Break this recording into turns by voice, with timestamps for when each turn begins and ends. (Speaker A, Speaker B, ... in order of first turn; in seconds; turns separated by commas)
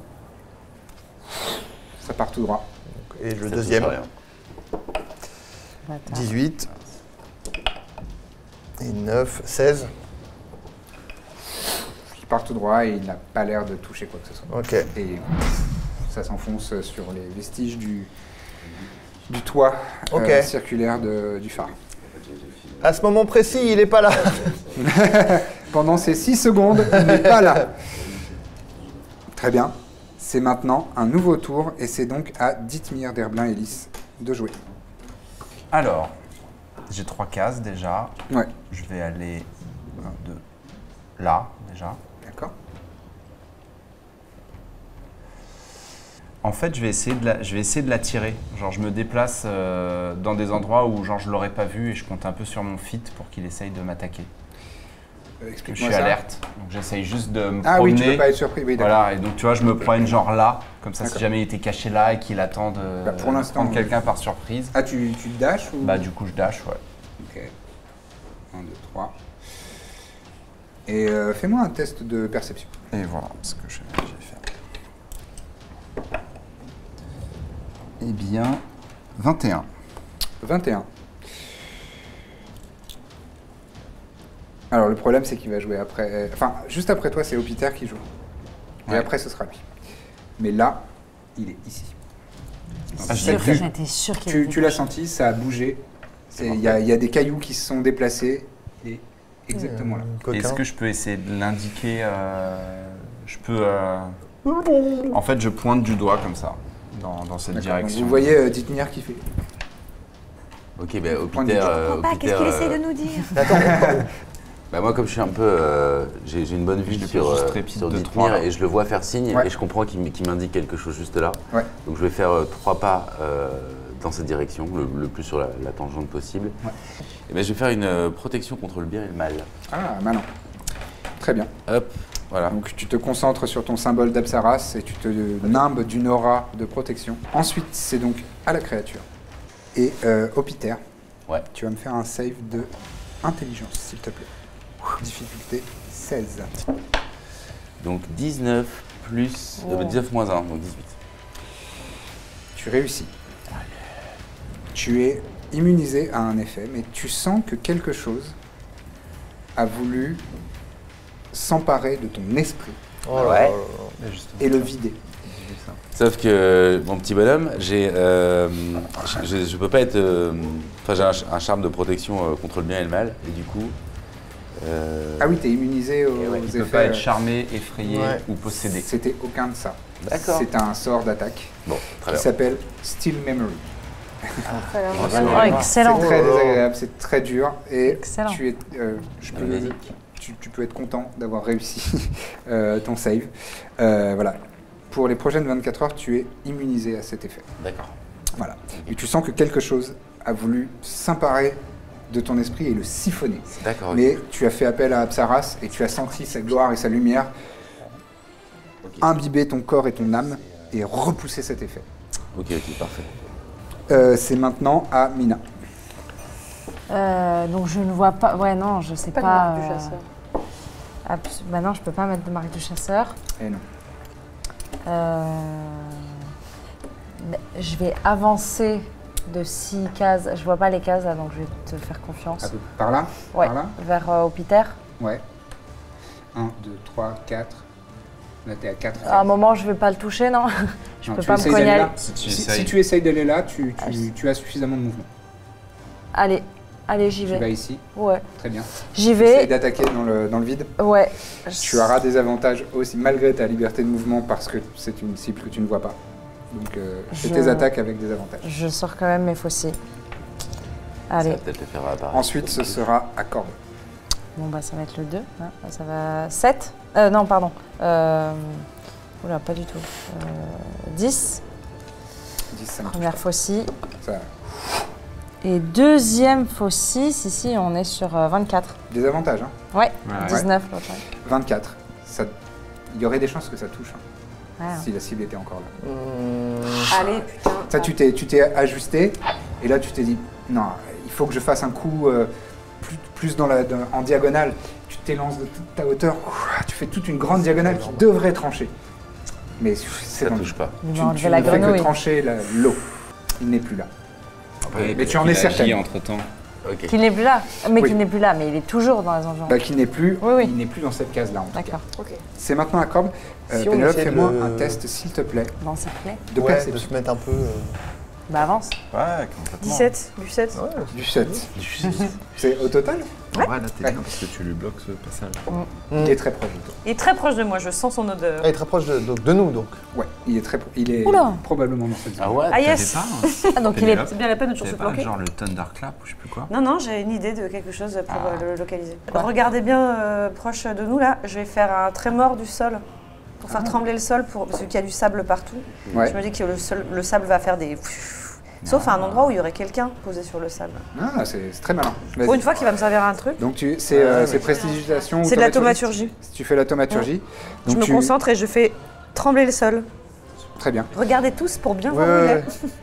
Speaker A: 2.0-2.7, Speaker B: 2.9-4.0, Speaker C: 3.5-4.1, Speaker D: 5.9-6.3, Speaker B: 6.1-6.7, Speaker B: 8.8-9.9, Speaker A: 12.1-15.5, Speaker B: 14.5-14.9, Speaker A: 16.1-18.1, Speaker A: 19.3-21.7, Speaker B: 20.1-20.5, Speaker C: 22.1-22.9, Speaker B: 22.8-24.7, Speaker A: 24.8-27.7, Speaker A: 29.3-34.6, Speaker E: 35.7-36.1, Speaker E: 36.9-39.5, Speaker E: 40.0-40.4, Speaker E: 41.2-42.0, Speaker A: 42.2-42.5, Speaker E: 46.4-54.3, Speaker A: 55.4-56.2, Speaker E: 55.7-64.8, Speaker A: 57.6-59.0, Speaker A: 63.0-64.0, Speaker A: 64.7-66.0, Speaker E: 65.8-66.8, Speaker A: 67.3-67.5, Speaker A: 68.5-69.1, Speaker A: 70.9-72.8, Speaker E: 72.9-74.5, Speaker E: 78.0-78.6, Speaker E: 79.2-79.7, Speaker A: 80.4-80.9, Speaker A: 84.7-88.0, Speaker A: 88.9-89.6, Speaker A: 90.4-92.0, Speaker A: 93.0-93.7, Speaker D: 93.0-94.9, Speaker E: 93.1-93.7, Speaker A: 94.3-100.1, Speaker E: 96.4-96.8, Speaker B: 99.5-100.6, Speaker E: 100.3-104.2, Speaker B: 104.4-105.2, Speaker E: 105.1-108.4, Speaker A: 107.5-109.2, Speaker C: 110.8-113.2, Speaker A: 111.3-111.7, Speaker F: 111.7-113.5, Speaker B: 113.3-114.1, Speaker A: 113.4-114.1, Speaker C: 114.7-126.6, Speaker E: 116.9-118.5, Speaker C: 127.3-129.5, Speaker A: 129.7-130.3, Speaker A: 131.2-131.5, Speaker C: 131.7-132.6, Speaker A: 132.5-139.1, Speaker A: 139.8-140.8, Speaker A: 141.5-142.7, Speaker A: 143.2-144.3, Speaker A: 144.8-146.5, Speaker C: 147.8-150.9, Speaker D: 149.6-150.0, Speaker A: 152.6-153.1, Speaker A: 154.7-158.4, Speaker A: 159.6-160.2, Speaker A: 161.3-162.8, Speaker B: 163.1-164.0, Speaker C: 163.2-163.6, Speaker E: 164.0-164.7, Speaker A: 164.4-165.0, Speaker E: 165.2-165.8, Speaker C: 165.9-173.8, Speaker C: 174.6-175.4, Speaker A: 175.2-177.1, Speaker C: 176.2-176.4, Speaker E: 176.4-178.9, Speaker B: 177.8-178.2, Speaker A: 178.8-183.7, Speaker C: 180.0-180.5, Speaker C: 181.7-182.3, Speaker F: 184.5-185.6, Speaker B: 184.5-186.6, Speaker C: 184.9-185.7, Speaker A: 185.1-194.4, Speaker D: 185.3-186.1, Speaker D: 187.8-188.4, Speaker C: 189.3-189.8, Speaker A: 194.9-197.5, Speaker C: 197.6-197.9, Speaker A: 198.3-207.3, Speaker C: 203.5-204.2, Speaker A: 209.0-211.9, Speaker C: 212.3-213.2, Speaker A: 213.9-215.4, Speaker D: 216.9-220.0, Speaker F: 219.1-220.0, Speaker D: 221.1-223.2, Speaker D: 224.9-226.2, Speaker D: 227.2-232.5, Speaker A: 232.4-233.8, Speaker D: 233.3-234.8, Speaker A: 236.3-237.7, Speaker A: 238.4-239.3, Speaker D: 239.0-241.9, Speaker A: 241.0-245.1, Speaker E: 241.4-242.8, Speaker D: 246.1-248.3, Speaker A: 247.2-250.8, Speaker D: 248.8-249.5, Speaker D: 250.8-251.9, Speaker A: 251.6-256.0, Speaker A: 256.5-258.6, Speaker D: 257.1-257.7, Speaker D: 258.4-259.8, Speaker D: 261.1-261.4, Speaker C: 261.1-262.8, Speaker A: 262.1-263.6, Speaker D: 264.4-268.6, Speaker D: 269.2-271.4, Speaker A: 272.5-273.2, Speaker D: 272.9-273.7, Speaker A: 274.0-274.3, Speaker D: 275.4-278.8, Speaker A: 278.9-279.6, Speaker D: 279.7-281.0, Speaker E: 280.1-280.4, Speaker A: 280.2-280.5, Speaker A: 281.1-282.3, Speaker A: 282.9-284.0, Speaker D: 284.6-284.9, Speaker A: 284.7-285.7, Speaker B: 285.8-287.1, Speaker F: 286.9-287.9, Speaker A: 287.7-298.7, Speaker B: 297.3-298.1, Speaker A: 299.6-302.9, Speaker C: 300.2-300.8, Speaker D: 300.8-301.9, Speaker B: 301.4-301.8, Speaker A: 303.4-303.9, Speaker E: 304.6-306.3, Speaker C: 304.7-305.0, Speaker A: 304.9-305.8, Speaker C: 306.6-307.0, Speaker D: 306.9-309.6, Speaker A: 309.5-311.8, Speaker D: 310.2-310.5, Speaker D: 311.5-311.8, Speaker F: 311.9-312.2, Speaker A: 312.4-315.6, Speaker B: 313.5-314.8, Speaker D: 315.6-316.2, Speaker A: 316.3-316.9, Speaker B: 316.4-317.8, Speaker D: 318.3-318.8, Speaker E: 318.9-319.9, Speaker F: 319.6-320.6, Speaker B: 320.6-321.4, Speaker A: 320.9-321.5, Speaker E: 321.6-322.1, Speaker A: 322.3-323.1, Speaker E: 323.3-325.4, Speaker B: 325.9-326.2, Speaker A: 326.0-326.8, Speaker F: 326.8-328.5, Speaker B: 328.4-329.8, Speaker A: 329.9-332.5, Speaker D: 331.0-331.4, Speaker C: 332.2-332.8, Speaker F: 332.5-335.1, Speaker E: 332.6-336.5, Speaker D: 333.6-334.1, Speaker F: 336.5-342.8, Speaker E: 338.1-338.4, Speaker F: 343.4-350.8, Speaker A: 345.9-346.2, Speaker E: 348.6-349.3, Speaker A: 350.9-352.5, Speaker F: 352.2-353.4, Speaker A: 353.4-358.1, Speaker B: 353.9-354.6, Speaker F: 355.2-356.1, Speaker F: 357.7-359.9, Speaker A: 360.6-360.9, Speaker F: 360.9-362.6, Speaker B: 361.9-362.6